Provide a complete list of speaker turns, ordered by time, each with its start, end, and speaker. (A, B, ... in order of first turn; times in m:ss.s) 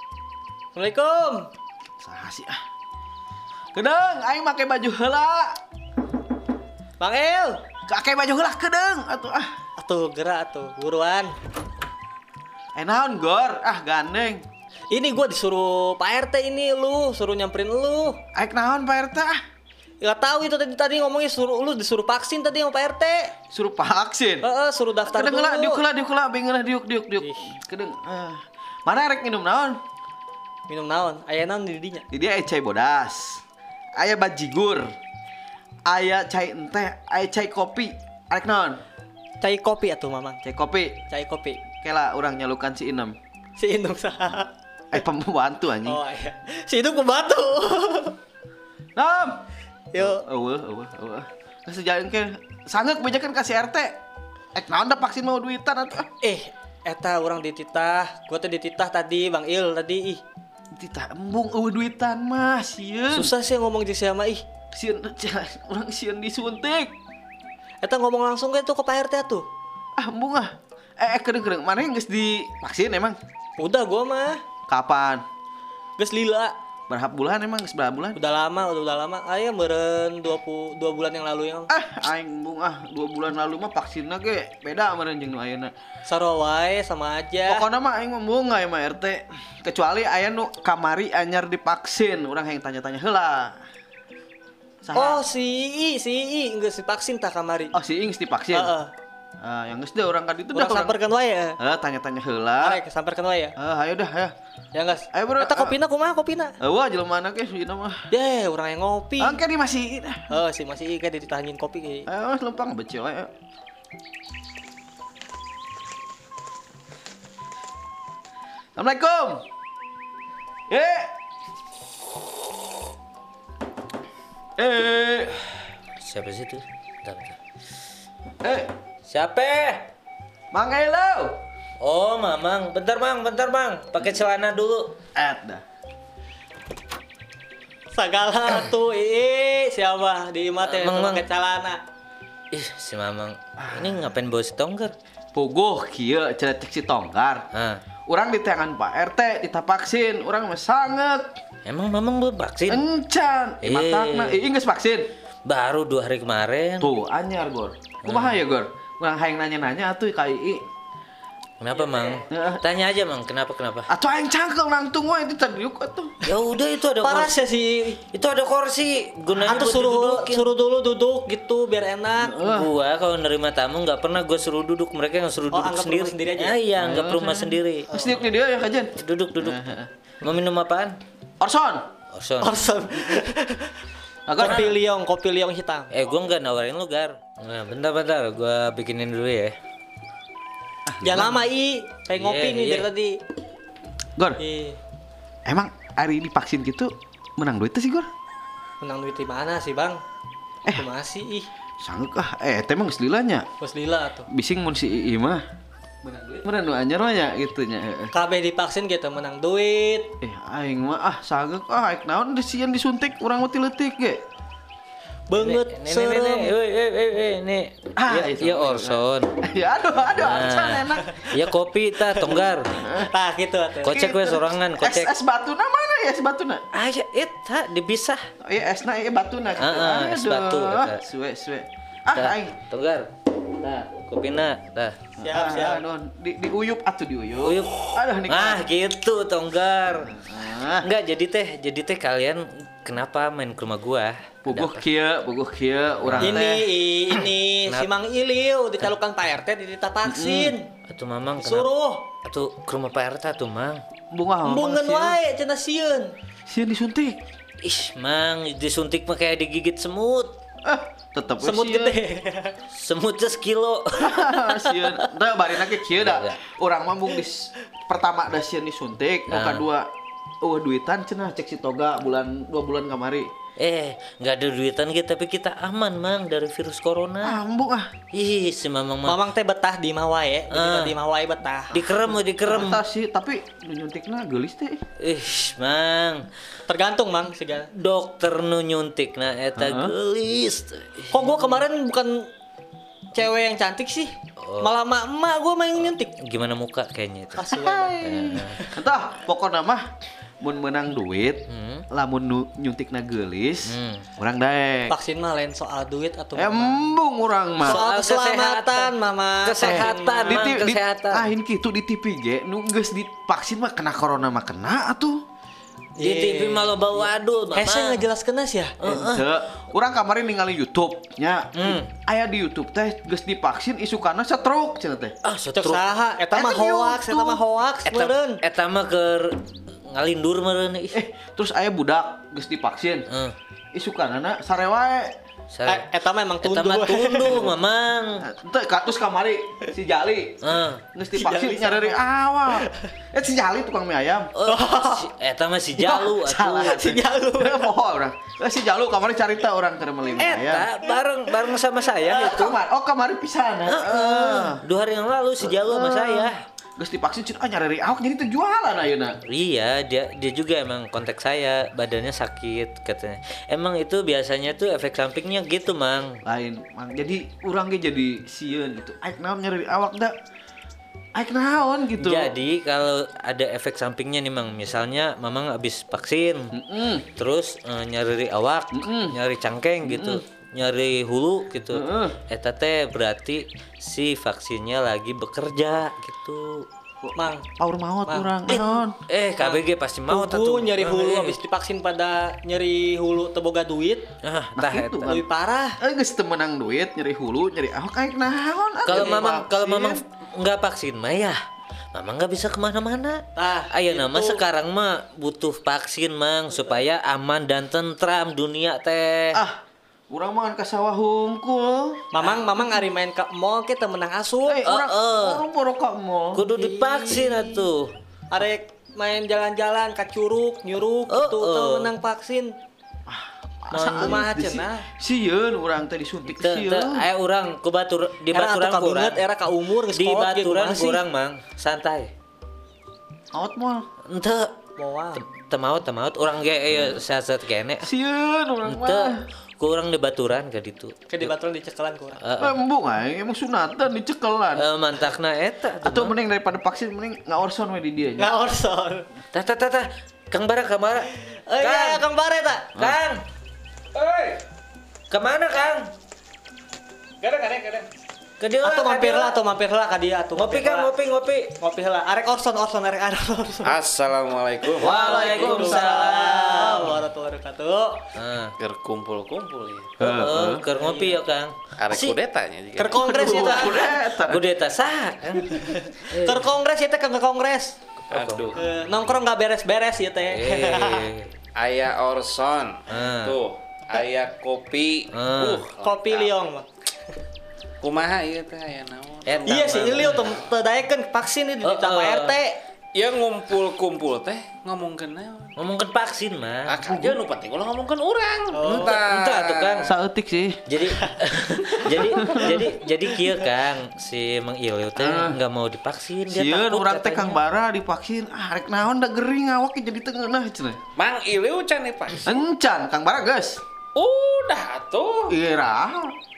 0:00.7-0:01.5 A
0:02.0-0:02.6 B
0:03.8-0:05.6 B
0:07.0-0:07.6 A
0:07.9-0:09.5 B
0:09.8-0:11.3 A
0:12.8-0:14.4 B
0:14.9-0:18.2 A
0:18.4-0:19.4 B
0:20.0-0:23.3 A
0:23.5-0:24.5 B
0:24.4-0:25.8 A
0:25.1-0:29.8 B
0:27.2-0:27.5 A
0:30.7-0:32.0 A
0:32.1-0:33.4 B
0:34.0-0:35.0 B
0:35.9-0:38.8 B
0:39.4-0:40.4 A
0:40.4-0:41.0 B
0:41.1-0:41.6 A
0:41.8-0:43.2 B
0:43.6-0:44.5 A
0:44.9-0:46.0 B
0:45.8-0:48.2 A
0:49.0-0:49.4 B
0:49.9-0:50.2 A
0:50.0-0:54.0 B
0:54.6-0:56.1 B
0:56.2-1:00.2 A
1:00.8-1:03.3 B
1:03.1-1:04.4 A
1:04.7-1:06.9 B
1:07.8-1:09.5 A
1:10.0-1:13.2 B
1:13.6-1:14.4 A
1:14.7-1:15.2 B
1:16.0-1:16.5 A
1:16.9-1:18.2 B
1:18.2-1:21.7 A
1:21.7-1:25.7 B
1:26.1-1:27.7 A
1:27.5-1:33.6 B
1:34.8-1:35.2 B
1:34.9-1:37.7 A
1:37.7-1:38.8 B
1:38.5-1:38.9 A
1:39.4-1:41.0 B
1:40.5-1:41.6 A
1:41.6-1:42.8 B
1:42.6-1:43.6 A
1:43.6-1:44.3 B
1:44.7-1:46.6 A
1:45.1-1:45.8 B
1:46.6-1:48.1 B
1:48.1-1:49.4 A
1:49.2-1:50.4 B
1:50.3-1:52.1 A
1:52.1-1:53.3 B
1:58.8-1:59.4 B
2:00.7-2:01.1 B
2:04.6-2:05.4 B
2:06.0-2:07.4 C
2:08.4-2:08.7 B
2:09.1-2:09.9 C
2:10.5-2:11.3 B
2:11.8-2:14.9 C
2:15.2-2:15.6 B
2:17.9-2:21.8 A
2:20.6-2:21.3 C
2:22.5-2:24.9 C
2:23.6-2:24.2 B
2:25.3-2:27.4 B
2:27.5-2:27.8 C
2:28.1-2:31.3 B
2:31.7-2:32.8 C
2:32.7-2:35.1 B
2:33.6-2:34.4 C
2:35.4-2:36.9 C
2:36.8-2:40.6 B
2:38.0-2:38.4 C
2:41.6-2:43.9 C
2:41.7-2:42.2 A
2:42.3-2:42.6 B
2:43.9-2:46.2 B
2:46.2-2:47.4 C
2:47.0-2:48.0 A
2:48.1-2:50.5 C
2:49.4-2:52.4 A
2:52.2-2:52.7 B
2:52.3-2:57.9 C
2:55.5-2:56.6 A
2:56.8-2:59.9 B
2:59.0-2:59.6 C
3:00.2-3:01.0 C
3:01.4-3:01.9 B
3:02.1-3:02.8 C
3:02.4-3:03.7 A
3:04.3-3:04.7 B
3:04.4-3:05.9 A
3:04.4-3:04.7 C
3:05.9-3:09.6 C
3:10.9-3:11.4 B
3:11.0-3:13.2 A
3:12.1-3:12.9 C
3:14.4-3:14.8 A
3:15.5-3:18.1 B
3:18.8-3:20.0 A
3:20.7-3:21.5 A
3:21.8-3:23.5 B
3:23.6-3:24.3 A
3:24.3-3:25.4 B
3:26.4-3:28.1 B
3:28.1-3:30.1 A
3:30.2-3:34.2 B
3:35.3-3:36.5 A
3:35.3-3:39.3 C
3:38.0-3:41.4 B
3:40.2-3:42.7 C
3:42.8-3:43.1 B
3:43.0-3:44.1 A
3:43.8-3:45.1 C
3:43.8-3:46.6 B
3:46.7-3:48.2 C
3:48.4-3:52.6 B
3:49.6-3:51.0 C
3:52.1-3:55.0 C
3:55.2-3:55.8 A
3:55.2-3:58.6 B
3:57.4-4:00.1 C
4:00.1-4:00.9 B
4:00.8-4:04.8 C
4:04.5-4:07.2 B
4:06.0-4:06.5 C
4:06.2-4:10.7 A
4:10.0-4:10.6 B
4:10.9-4:11.7 C
4:11.4-4:12.1 A
4:12.2-4:13.8 C
4:14.1-4:15.2 B
4:14.4-4:16.1 A
4:16.5-4:17.2 B
4:17.6-4:20.4 C
4:20.6-4:22.0 B
4:21.4-4:22.6 A
4:22.7-4:24.9 C
4:24.0-4:29.9 B
4:25.8-4:26.4 C
4:29.3-4:29.6 C
4:30.4-4:33.3 B
4:33.6-4:37.4 C
4:37.2-4:37.9 B
4:38.1-4:39.2 C
4:39.0-4:41.8 A
4:40.5-4:40.9 C
4:41.7-4:42.8 C
4:42.5-4:44.8 B
4:45.0-4:46.2 C
4:46.7-4:47.7 A
4:47.8-4:51.4 C
4:49.6-4:50.0 B
4:51.1-4:52.3 A
4:53.1-4:56.2 A
4:54.4-4:54.7 C
4:55.8-4:58.6 C
4:57.4-4:58.7 A
4:57.7-4:59.8 B
5:00.4-5:05.0 B
5:01.5-5:01.9 C
5:03.7-5:04.1 C
5:04.9-5:06.9 A
5:06.4-5:07.8 B
5:07.6-5:08.9 C
5:07.6-5:10.6 A
5:09.4-5:11.3 C
5:09.6-5:15.2 B
5:16.0-5:18.0 C
5:16.0-5:18.7 A
5:18.8-5:19.3 C
5:18.8-5:25.2 B
5:21.6-5:21.9 C
5:25.2-5:25.8 C
5:25.5-5:28.4 A
5:26.3-5:27.4 B
5:27.8-5:29.3 C
5:29.9-5:31.0 C
5:30.9-5:33.1 B
5:33.1-5:33.4 C
5:33.7-5:35.2 B
5:35.5-5:35.9 C
5:35.6-5:37.5 A
5:36.4-5:38.3 C
5:38.2-5:40.4 B
5:40.4-5:40.8 C
5:40.9-5:44.3 B
5:41.1-5:42.0 A
5:42.5-5:42.9 A
5:44.4-5:47.0 C
5:44.4-5:45.1 A
5:45.8-5:50.7 B
5:46.8-5:47.7 A
5:50.2-5:52.6 C
5:52.1-5:54.6 B
5:53.7-5:56.4 C
5:55.4-5:59.1 B
5:59.3-6:06.2 C
6:06.2-6:10.1 B
6:11.2-6:12.3 B
6:12.0-6:16.5 C
6:16.5-6:17.0 B
6:17.2-6:26.7 C
6:18.7-6:19.2 B
6:19.8-6:20.2 B
6:21.7-6:22.2 B
6:27.0-6:29.0 B
6:27.2-6:27.4 A
6:28.1-6:28.4 A
6:28.5-6:31.4 C
6:29.4-6:34.0 A
6:34.2-6:35.2 C
6:34.6-6:35.2 B
6:35.1-6:35.8 A
6:35.8-6:40.0 B
6:38.8-6:41.4 C
6:41.9-6:49.4 C
6:43.4-6:44.4 A
6:49.3-6:52.0 B
6:52.1-6:54.7 A
6:54.5-6:56.4 B
6:54.7-6:55.4 C
6:56.3-6:57.9 C
6:56.5-6:57.7 A
6:58.3-7:02.5 A
7:01.1-7:01.9 C
7:03.1-7:07.1 B
7:03.7-7:04.3 C
7:03.8-7:04.9 A
7:06.3-7:09.2 C
7:08.3-7:11.0 A
7:09.9-7:12.1 C
7:13.3-7:13.9 B
7:14.1-7:14.5 C
7:14.8-7:15.2 A
7:15.2-7:17.9 C
7:16.8-7:17.0 B
7:17.8-7:19.2 B
7:18.6-7:21.3 C
7:21.1-7:22.2 A
7:22.2-7:22.6 C
7:22.4-7:24.7 B
7:24.6-7:26.2 C
7:25.8-7:28.4 B
7:28.2-7:29.0 A
7:29.3-7:32.0 C
7:31.5-7:32.7 A
7:32.8-7:33.2 C
7:33.9-7:34.4 D
7:35.1-7:35.8 C
7:37.2-7:37.9 D
7:38.4-7:39.4 C
7:38.6-7:40.9 A
7:40.4-7:41.5 C
7:41.6-7:43.8 A
7:43.6-7:45.0 D
7:44.8-7:46.8 C
7:44.8-7:46.9 B
7:44.9-7:48.0 A
7:48.2-7:48.5 C
7:48.6-7:49.9 D
7:50.0-7:50.7 B
7:50.0-7:52.2 C
7:50.8-7:51.2 A
7:51.8-7:53.6 D
7:52.8-7:54.0 A
7:52.9-7:54.4 B
7:54.2-7:56.5 C
7:55.5-7:57.8 A
7:58.1-7:58.6 C
7:58.1-7:58.6 D
7:58.6-8:01.1 A
8:00.3-8:01.3 C
8:01.6-8:06.3 D
8:02.9-8:03.4 C
8:05.1-8:05.6 C
8:05.8-8:06.7 A
8:07.8-8:10.5 D
8:09.3-8:10.2 C
8:09.5-8:12.6 A
8:11.6-8:12.4 C
8:13.0-8:15.5 D
8:15.6-8:16.7 C
8:16.7-8:19.8 D
8:16.9-8:17.2 B
8:18.5-8:19.0 A
8:18.6-8:19.9 C
8:19.8-8:20.6 B
8:20.7-8:27.4 C
8:21.8-8:22.4 A
8:22.2-8:22.6 B
8:25.0-8:25.4 B
8:26.3-8:30.8 B
8:31.0-8:32.4 D
8:32.3-8:33.6 B
8:34.0-8:35.3 D
8:35.3-8:36.1 B